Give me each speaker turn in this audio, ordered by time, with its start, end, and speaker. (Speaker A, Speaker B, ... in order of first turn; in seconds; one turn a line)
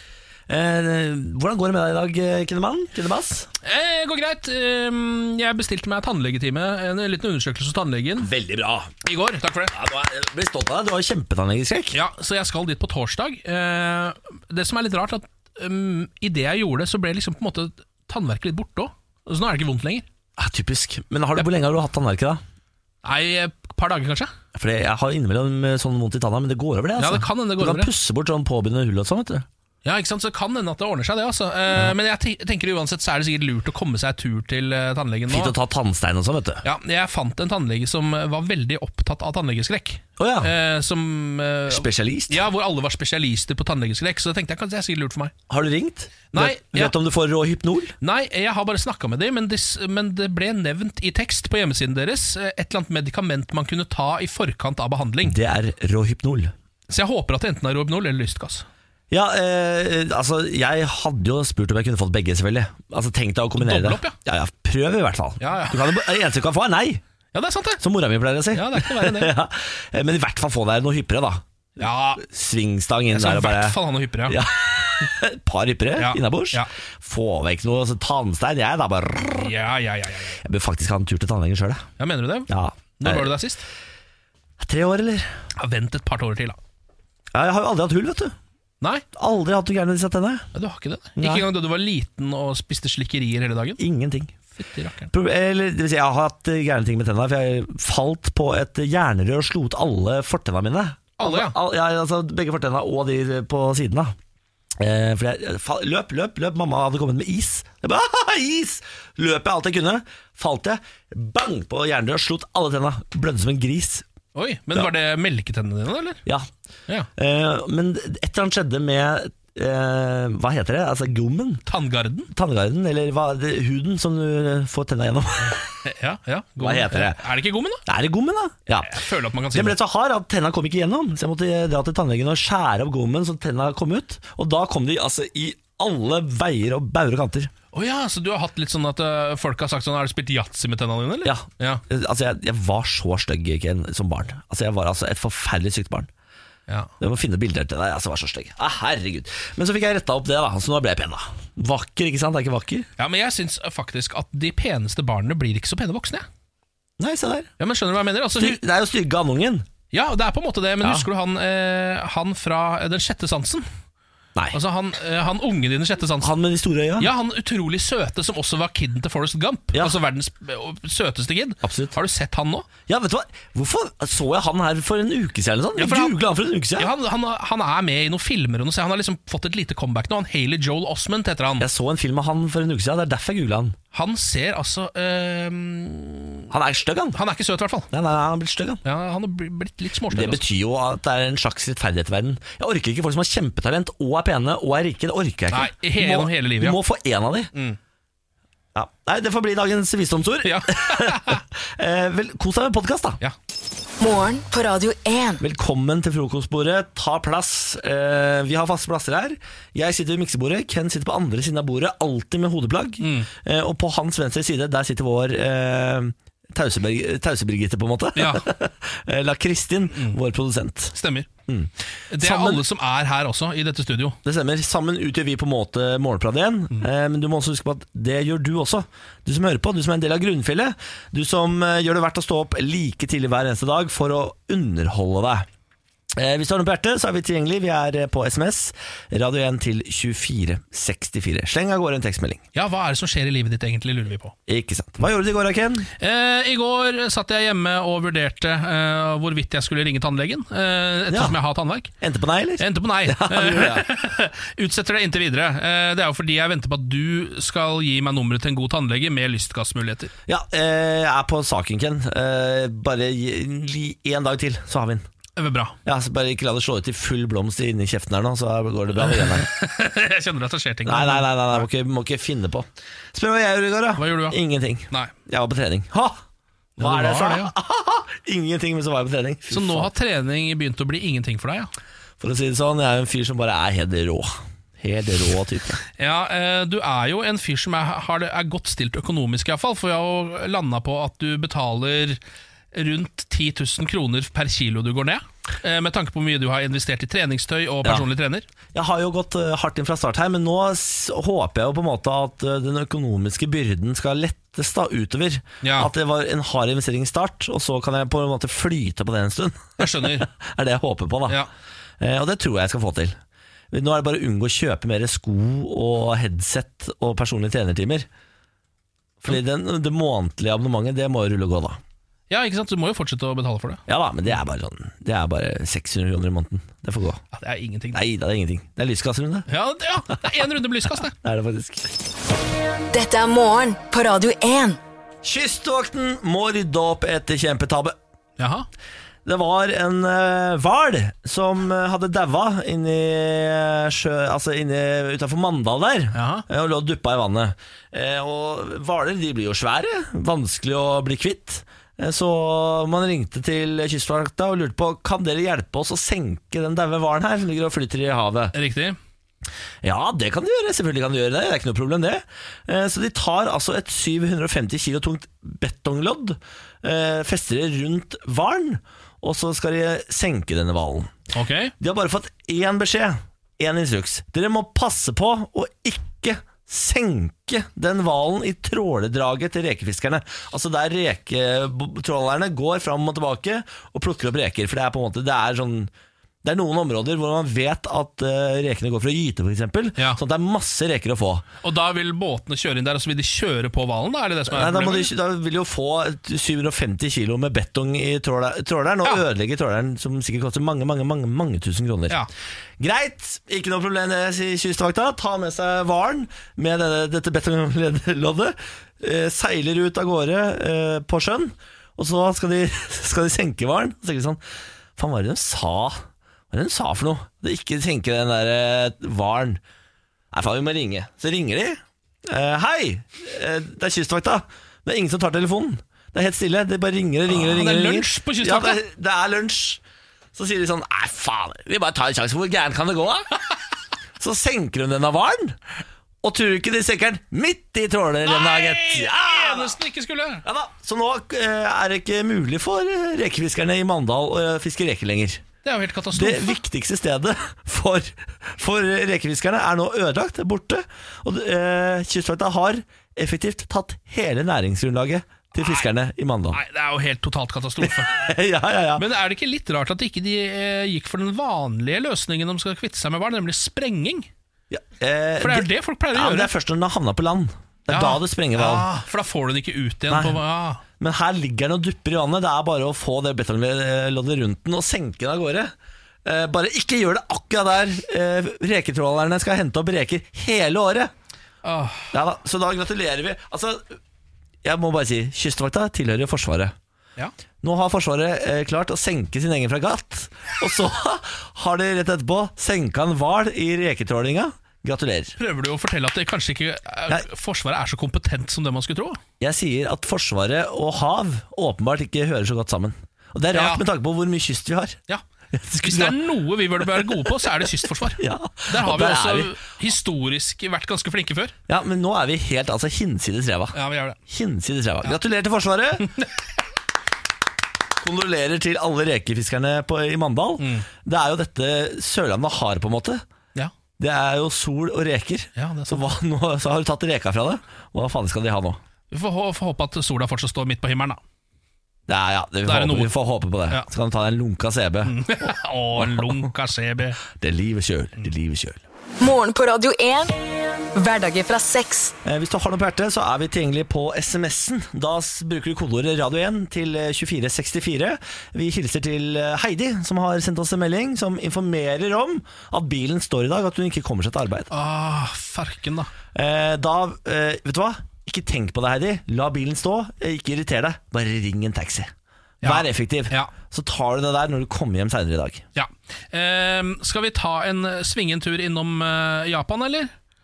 Speaker A: 0.5-3.5
Speaker B: 3.6-8.3
Speaker A: 8.2-9.0
Speaker B: 9.0-9.7
Speaker A: 9.7-11.9
Speaker B: 11.9-20.1
Speaker A: 20.4-22.4
Speaker B: 23.0-24.3
Speaker A: 24.5-29.4
Speaker B: 27.0-27.9
Speaker B: 29.8-35.5
Speaker A: 35.3-36.6
Speaker B: 36.6-45.3
Speaker A: 40.2-40.5
Speaker A: 41.7-42.4
Speaker A: 45.5-47.9
Speaker B: 46.3-46.9
Speaker B: 48.0-55.4
Speaker A: 55.2-56.5
Speaker B: 56.9-58.6
Speaker A: 59.1-67.0
Speaker B: 63.6-64.2
Speaker B: 65.4-66.0
Speaker B: 67.3-67.8
Speaker A: 67.8-71.4
Speaker B: 68.5-69.3
Speaker B: 71.8-72.2
Speaker A: 72.2-73.8
Speaker B: 73.1-74.4
Speaker A: 74.3-79.5
Speaker B: 76.0-76.7
Speaker B: 79.4-80.4
Speaker A: 80.4-81.8
Speaker B: 82.0-83.6
Speaker A: 82.5-83.3
Speaker A: 84.6-85.3
Speaker B: 85.6-86.6
Speaker A: 87.3-88.3
Speaker A: 89.1-90.5
Speaker B: 90.5-93.8
Speaker A: 91.2-91.5
Speaker A: 93.8-94.3
Speaker B: 94.5-95.1
Speaker A: 95.1-104.1
Speaker B: 101.2-101.5
Speaker A: 104.8-114.0
Speaker B: 114.3-116.2
Speaker A: 117.2-121.6
Speaker B: 121.7-122.3
Speaker A: 122.3-125.8
Speaker B: 125.8-127.8
Speaker A: 126.6-127.2
Speaker A: 127.8-129.0
Speaker B: 128.8-129.8
Speaker A: 129.5-137.5
Speaker B: 137.7-141.8
Speaker A: 141.2-146.1
Speaker A: 147.0-152.9
Speaker B: 153.0-156.2
Speaker A: 157.0-157.5
Speaker B: 157.6-158.6
Speaker A: 158.3-159.7
Speaker B: 159.9-163.7
Speaker B: 164.5-166.3
Speaker A: 166.2-167.1
Speaker B: 167.0-172.7
Speaker A: 171.6-171.9
Speaker A: 172.9-176.9
Speaker B: 175.8-176.2
Speaker B: 176.8-181.6
Speaker A: 181.6-183.8
Speaker B: 183.9-186.5
Speaker A: 186.5-187.2
Speaker B: 187.1-187.9
Speaker A: 187.9-188.8
Speaker B: 188.8-190.4
Speaker A: 190.1-197.5
Speaker B: 195.5-196.8
Speaker A: 198.7-203.2
Speaker B: 200.4-201.4
Speaker C: 204.0-205.4
Speaker A: 205.4-220.9
Speaker B: 213.0-213.3
Speaker B: 218.2-218.4
Speaker B: 220.9-221.3
Speaker A: 221.5-222.6
Speaker B: 222.1-224.2
Speaker A: 224.2-235.4
Speaker A: 236.2-242.4
Speaker B: 242.5-244.3
Speaker A: 244.5-245.9
Speaker B: 246.0-251.9
Speaker A: 251.1-251.4
Speaker A: 252.0-253.9
Speaker B: 252.6-260.1
Speaker A: 260.3-265.1
Speaker B: 265.4-265.8
Speaker A: 265.9-269.5
Speaker B: 269.0-271.6
Speaker A: 270.9-276.2
Speaker B: 274.0-274.4
Speaker B: 276.8-277.5
Speaker A: 276.8-279.9
Speaker B: 279.5-281.7
Speaker A: 282.2-285.8
Speaker B: 286.0-292.2
Speaker B: 292.7-298.4
Speaker A: 298.7-311.4
Speaker B: 305.6-305.9
Speaker B: 309.8-310.3
Speaker A: 312.0-313.2
Speaker A: 313.7-318.1
Speaker A: 319.2-321.8
Speaker B: 322.3-323.8
Speaker A: 323.9-327.2
Speaker B: 327.3-328.0
Speaker A: 327.9-329.5
Speaker B: 329.5-331.1
Speaker A: 331.2-332.0
Speaker C: 332.9-334.8
Speaker A: 335.2-337.9
Speaker B: 338.4-338.7
Speaker A: 339.2-358.5
Speaker B: 346.1-346.4
Speaker B: 358.5-359.0
Speaker A: 359.8-371.1
Speaker B: 371.3-371.7
Speaker A: 371.8-385.9
Speaker A: 386.4-391.4
Speaker B: 391.6-395.1
Speaker A: 394.5-402.2
Speaker A: 402.8-414.4
Speaker A: 415.0-419.6
Speaker A: 420.3-429.8
Speaker B: 427.3-428.8
Speaker A: 430.3-433.3
Speaker A: 434.2-435.6
Speaker A: 436.2-439.7
Speaker B: 438.2-440.4
Speaker A: 440.4-445.4
Speaker B: 445.6-446.6
Speaker A: 446.1-456.6
Speaker B: 455.6-455.9
Speaker B: 456.5-458.3
Speaker A: 457.8-459.0
Speaker B: 458.9-464.3
Speaker A: 464.7-468.9
Speaker B: 465.4-466.5
Speaker B: 467.9-470.8
Speaker A: 470.1-470.4
Speaker A: 471.0-475.7
Speaker A: 476.2-481.1
Speaker B: 481.6-482.1
Speaker A: 482.1-484.0
Speaker A: 484.6-486.7
Speaker A: 487.6-495.4
Speaker B: 495.4-499.2
Speaker A: 499.4-505.0
Speaker B: 503.5-503.8
Speaker A: 505.5-506.2
Speaker B: 505.8-511.5
Speaker A: 507.0-507.4
Speaker A: 508.2-509.5
Speaker A: 511.7-513.8
Speaker B: 513.7-514.2
Speaker A: 514.3-516.1
Speaker A: 518.0-523.2
Speaker B: 520.6-520.8
Speaker A: 524.0-528.8
Speaker B: 525.5-526.0
Speaker B: 529.1-531.2
Speaker A: 532.1-536.5
Speaker B: 532.6-533.1
Speaker B: 535.0-537.2
Speaker A: 537.4-538.8
Speaker C: 539.2-540.4
Speaker C: 540.9-542.1
Speaker A: 542.2-554.7
Speaker B: 554.7-556.1
Speaker A: 556.3-562.1
Speaker B: 562.6-563.5
Speaker A: 562.6-565.6
Speaker B: 565.8-570.1